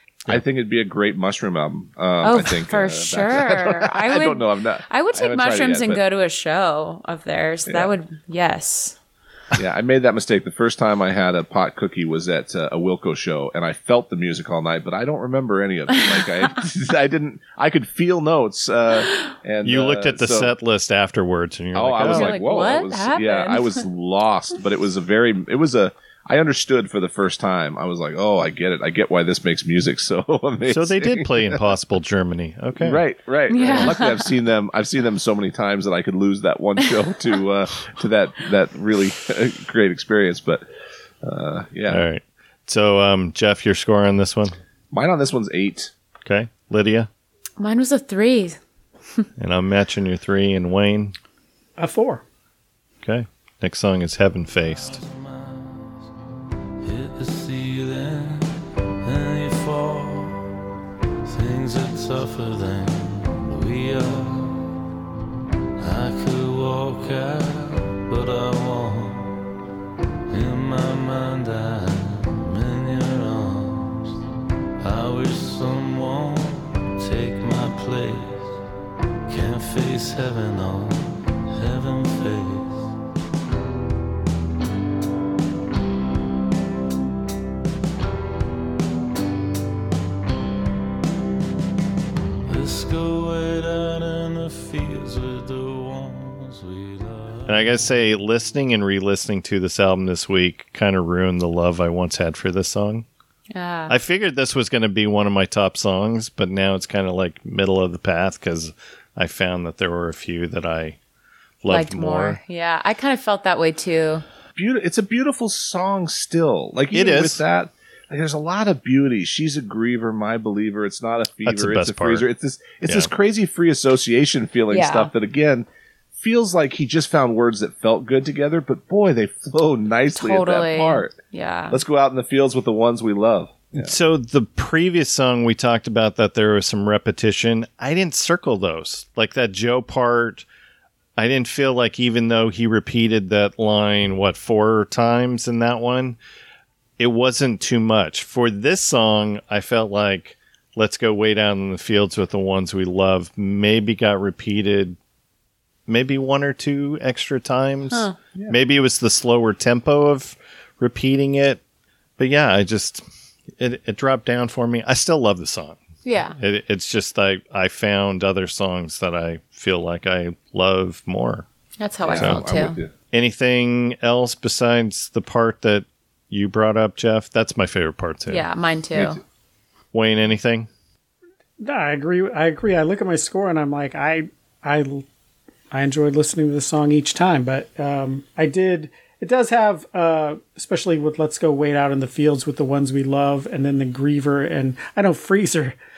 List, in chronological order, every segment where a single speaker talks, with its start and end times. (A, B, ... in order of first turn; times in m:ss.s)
0:00.3-0:06.0 A
0:02.2-0:09.0 B
0:09.6-0:20.5 A
0:19.6-0:22.3 C
0:21.7-0:31.6 A
0:22.0-0:23.8 B
0:30.7-0:33.0 C
0:32.8-0:40.6 A
0:33.5-0:34.2 B
0:33.6-0:33.9 C
0:41.2-0:42.0 A
0:41.9-0:44.6 C
0:44.9-0:45.9 A
0:46.2-0:47.1 C
0:47.6-0:48.6 B
0:49.4-0:51.1 C
0:51.8-0:52.2 D
0:53.0-0:55.0 C
0:54.9-0:55.9 E
0:56.8-0:58.5 E
0:59.0-1:00.4 E
1:01.3-1:04.6 E
1:05.8-1:09.4 E
1:10.3-1:14.2 E
1:14.8-1:18.5 E
1:19.3-1:22.9 E
1:32.4-1:37.7 E
1:37.5-1:43.0 C
1:43.5-1:43.9 B
1:43.9-1:51.0 C
1:51.6-1:52.4 C
1:51.7-1:54.2 B
1:54.6-2:11.2 A
1:56.9-1:57.4 C
2:01.4-2:02.2 C
2:02.8-2:03.1 C
2:04.7-2:05.1 B
2:10.2-2:11.8 B
2:11.7-2:13.9 A
2:13.8-2:20.4 C
2:21.2-2:26.2 C
2:27.0-2:35.0 C
2:35.9-2:41.6 C
2:37.9-2:38.2 B
2:42.2-2:43.0 C
2:43.6-2:45.8 C
2:46.0-2:46.4 B
2:46.4-2:51.4 C
2:51.8-2:52.8 B
2:52.0-2:52.9 A
2:52.2-2:52.4 C
2:53.1-2:58.4 C
2:58.3-2:59.2 B
2:58.9-2:59.2 A
2:59.9-3:00.7 C
3:01.6-3:05.0 D
3:05.7-3:15.8 D